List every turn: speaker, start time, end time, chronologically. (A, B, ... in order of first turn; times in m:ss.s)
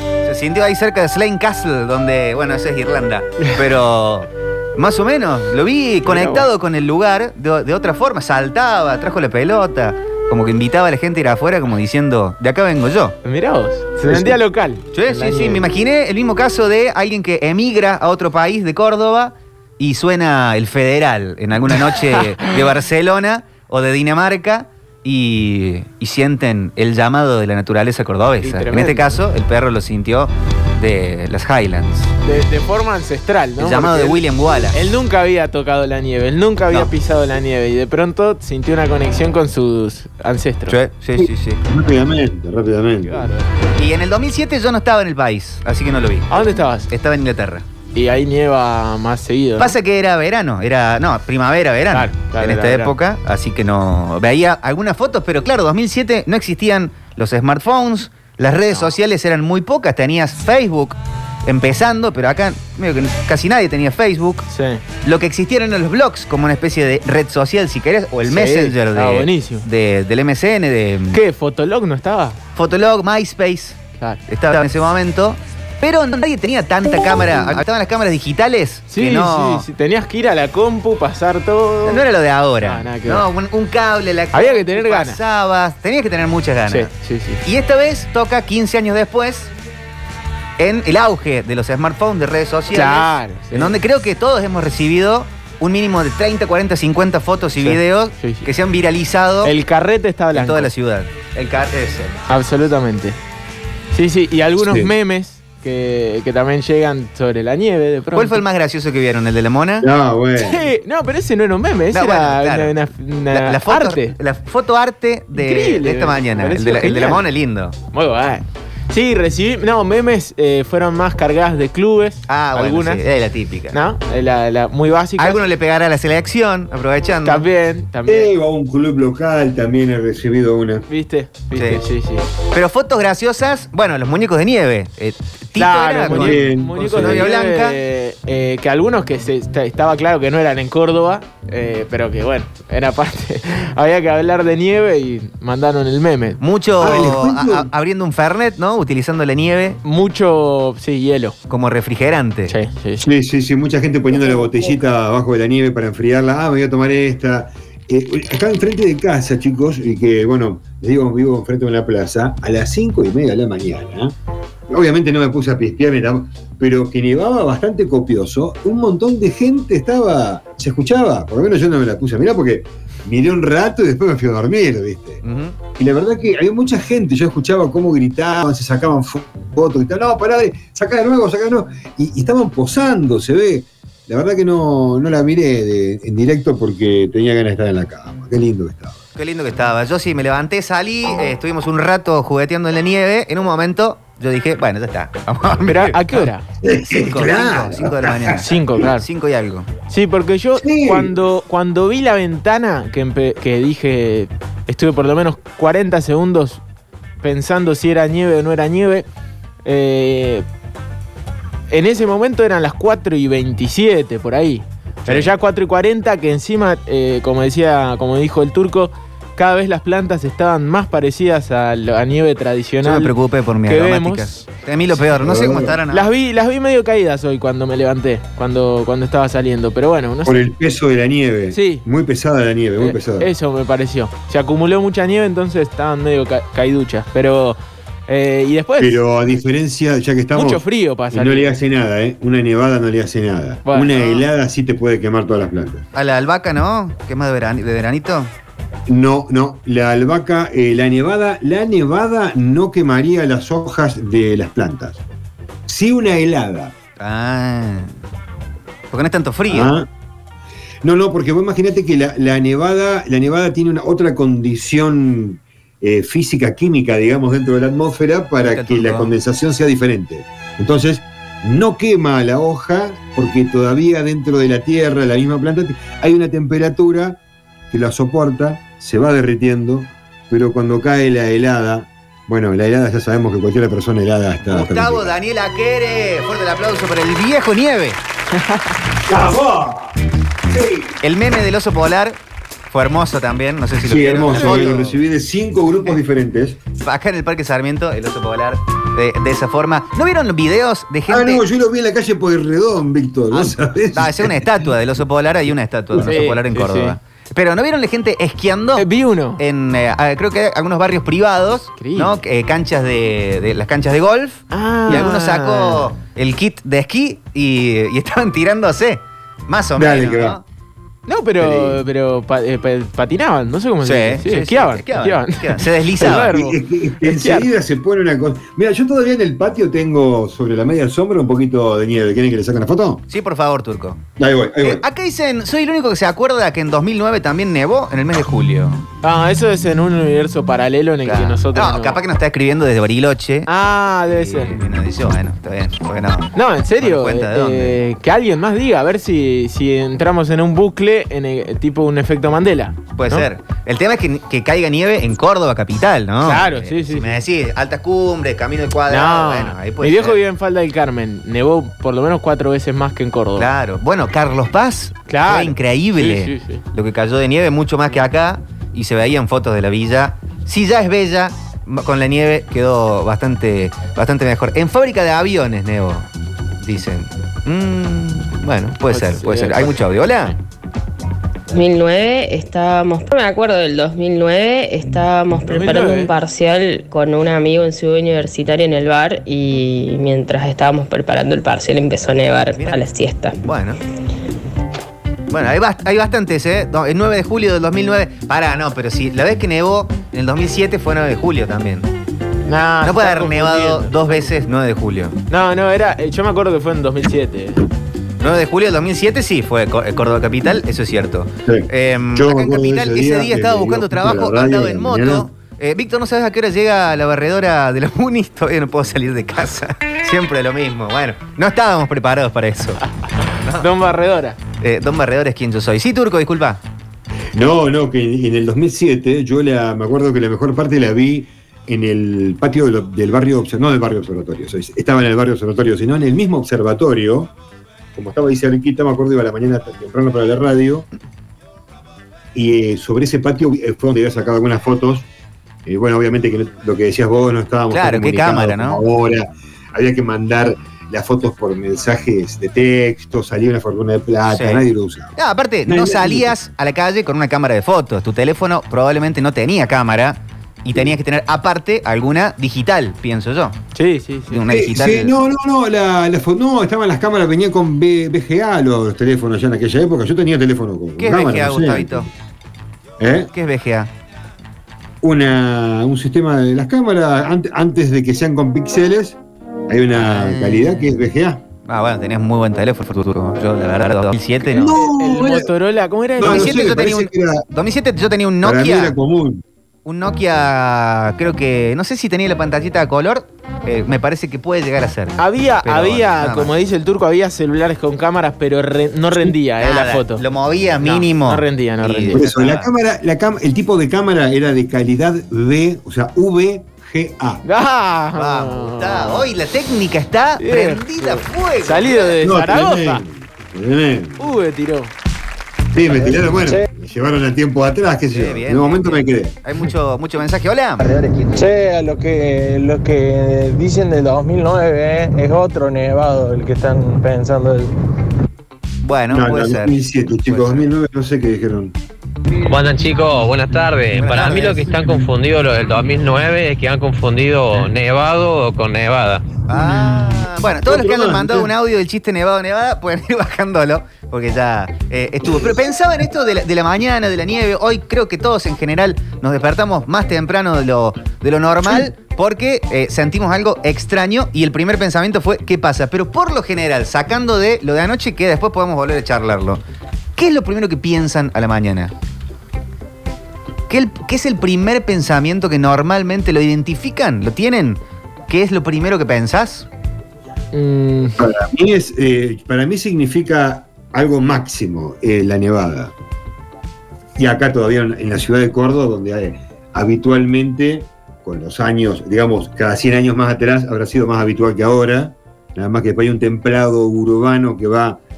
0:00.2-0:13.2 A
0:06.1-0:06.5 B
0:13.2-0:15.7 B
0:14.1-0:14.4 C
0:14.9-0:32.1 A
0:28.4-0:29.2 B
0:32.2-0:34.2 B
0:33.6-0:34.8 A
0:34.7-0:40.8 B
0:40.7-0:41.6 A
0:41.2-0:43.3 C
0:43.0-0:43.5 B
0:43.8-0:46.3 A
0:46.3-0:46.9 B
0:46.9-0:47.7 A
0:48.0-0:49.8 B
0:49.6-1:04.5 A
0:51.9-0:52.9 B
1:04.5-1:04.8 B
1:05.0-1:11.2 A
1:08.3-1:09.6 B
1:11.1-1:12.4 B
1:12.6-1:19.6 A
1:18.9-1:22.0 B
1:21.8-1:26.9 A
1:22.6-1:23.2 B
1:24.3-1:25.2 B
1:26.7-1:27.4 B
1:27.4-1:29.5 A
1:30.6-1:39.5 A
1:32.7-1:33.8 B
1:37.6-1:38.5 B
1:39.4-1:40.7 B
1:40.3-1:42.2 A
1:42.3-1:43.2 B
1:43.9-1:48.4 B
1:44.6-1:44.9 C
1:48.1-1:49.9 A
1:49.8-1:50.6 C
1:50.4-1:54.2 B
1:51.9-1:52.7 A
1:53.3-1:57.8 A
1:55.3-1:57.2 B
1:57.9-2:03.0 B
2:02.3-2:03.8 A
2:03.7-2:05.4 B
2:05.2-2:07.5 A
2:07.2-2:08.3 B
2:08.1-2:10.8 C
2:10.9-2:12.3 B
2:11.5-2:11.8 A
2:12.5-2:17.8 A
2:15.6-2:26.4 B
2:16.1-2:17.3 C
2:26.4-2:29.8 A
2:26.8-2:27.7 C
2:29.8-2:31.4 B
2:31.5-2:32.5 A
2:32.5-2:33.1 B
2:33.0-2:44.2 C
2:44.7-2:55.2 C
2:55.2-2:55.6 A
2:55.8-3:09.0 C
3:09.2-3:16.3 A
3:15.7-3:16.4 B
3:16.6-3:18.4 C
3:16.9-3:19.7 A
3:18.4-3:19.0 B
3:19.9-3:26.6 B
3:20.6-3:21.1 C
3:27.2-3:29.1 B
3:29.6-3:30.4 B
3:31.7-3:43.1 B
3:35.0-3:35.3 A
3:42.8-3:46.1 A
3:43.7-3:44.4 B
3:45.2-3:45.8 C
3:45.9-3:50.4 B
3:50.2-3:53.3 C
3:51.5-3:51.8 B
3:52.8-3:59.0 B
3:58.8-4:05.8 C
4:00.3-4:01.6 B
4:03.7-4:04.2 B
4:06.0-4:08.3 A
4:08.9-4:15.0 C
4:15.7-4:16.8 C
4:17.0-4:17.9 A
4:18.9-4:19.7 A
4:19.5-4:19.9 C
4:20.8-4:37.2 C
4:28.4-4:29.1 A
4:37.7-4:45.1 C
4:44.5-4:48.0 A
4:49.1-4:49.9 C
4:50.5-4:51.0 C
4:51.0-4:52.2 A
4:52.7-4:55.0 A
4:53.8-4:56.6 C
4:54.3-4:54.7 B
4:56.8-5:01.4 A
5:01.1-5:04.6 C
5:03.3-5:08.9 A
5:06.0-5:07.0 B
5:08.8-5:09.4 B
5:09.4-5:20.4 A
5:11.8-5:12.1 B
5:14.5-5:15.9 B
5:19.8-5:20.4 C
5:21.1-5:27.5 B
5:21.4-5:21.8 C
5:23.8-5:26.3 A
5:26.2-5:33.0 C
5:33.1-5:34.0 A
5:34.2-5:34.8 C
5:34.6-5:38.9 A
5:39.0-5:42.0 B
5:41.0-5:43.5 A
5:43.5-5:44.6 B
5:44.1-5:47.8 A
5:46.4-5:53.3 B
5:53.0-6:00.2 A
5:56.2-5:57.2 B
5:58.9-6:03.5 B
6:03.4-6:16.1 A
6:05.1-6:06.6 B
6:16.6-6:20.4 A
6:18.9-6:19.8 B
6:21.5-6:33.4 D
6:25.5-6:26.1 B
6:32.6-6:32.8 A
6:33.4-6:33.8 A
6:35.3-6:41.9 A
6:42.5-6:44.3 B
6:42.8-6:45.2 A
6:45.3-6:47.6 B
6:48.2-7:02.8 A
6:51.5-6:55.3 C
7:03.4-7:03.7 A
7:03.5-7:04.4 B
7:04.6-7:06.6 A
7:07.4-7:17.3 C
7:18.0-7:20.9 C
7:22.4-7:25.1 C
7:25.7-7:35.2 C
7:27.7-7:28.8 A
7:34.3-7:34.7 A
7:35.2-7:43.6 A
7:35.7-7:36.3 C
7:43.8-7:44.4 B
7:44.3-7:45.1 A
7:44.5-7:52.1 C
7:51.0-7:52.1 A
7:53.0-7:53.3 C
7:53.3-7:53.9 A
7:55.0-8:01.4 C
7:59.9-8:00.9 A
8:01.7-8:04.8 A
8:04.5-8:05.5 C
8:05.0-8:06.6 B
8:06.2-8:07.5 C
8:06.2-8:09.0 A
8:08.4-8:09.4 C
8:09.8-8:16.5 A
8:15.2-8:20.2 B
8:19.6-8:22.7 A
8:20.8-8:22.2 B
8:22.1-8:27.4 C
8:27.4-8:29.2 B
8:28.2-8:32.2 A
8:30.4-8:33.0 B
8:32.2-8:34.3 C
8:34.2-8:34.9 B
8:35.7-8:39.4 C
8:36.1-8:36.7 E
8:38.1-8:40.9 A
8:40.8-8:47.7 E
8:48.8-8:49.8 A
8:49.1-8:51.8 C
8:50.3-8:50.7 A
8:52.5-8:59.3 F
8:53.9-8:54.8 A
8:59.5-9:19.6 A
8:59.5-9:01.5 C
9:20.2-9:21.9 A
9:23.7-9:29.7 A
9:30.5-9:31.2 B
9:31.2-9:35.9 C
9:37.2-9:48.0 C